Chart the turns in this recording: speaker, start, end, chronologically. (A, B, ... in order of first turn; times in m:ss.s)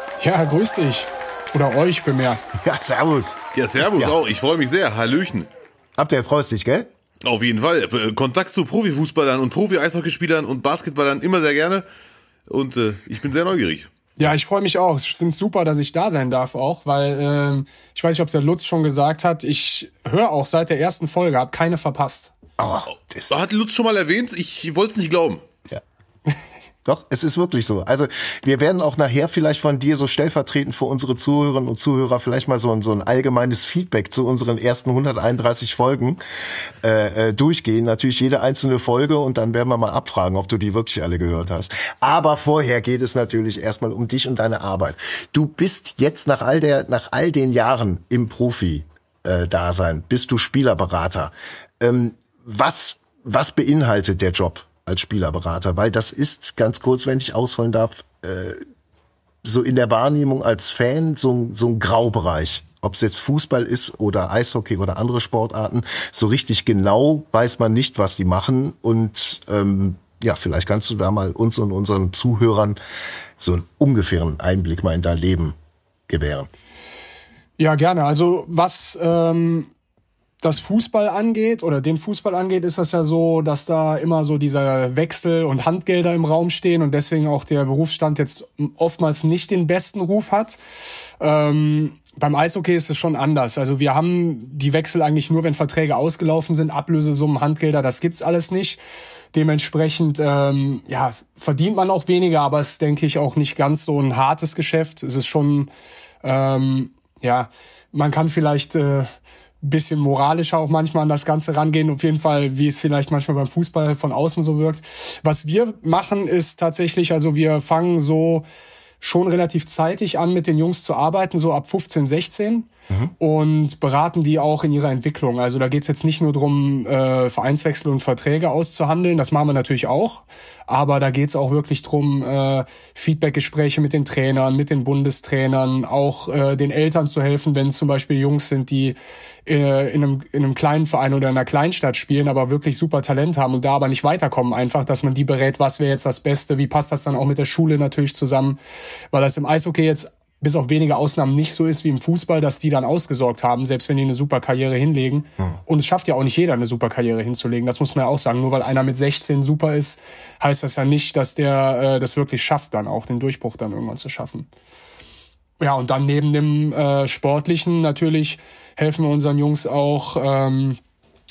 0:00.2-0:02.4 A
0:02.6-0:03.4 B
0:03.5-0:05.5 C
0:06.0-0:06.9 B
0:07.2-0:11.8 C
0:12.5-0:13.9 C
0:14.2-0:22.3 A
0:22.6-0:23.4 B
0:23.3-0:25.4 C
0:26.8-0:36.2 B
0:36.8-0:58.6 B
0:59.4-1:12.8 B
1:13.4-1:15.5 B
1:16.1-1:16.5 B
1:17.6-1:19.7 A
1:20.4-1:30.6 A
1:31.2-1:38.8 A
1:39.3-1:45.7 A
1:46.2-1:49.1 A
1:49.6-1:58.4 A
1:59.0-2:02.7 A
2:03.2-2:28.6 A
2:29.1-2:44.5 A
2:45.6-2:50.8 A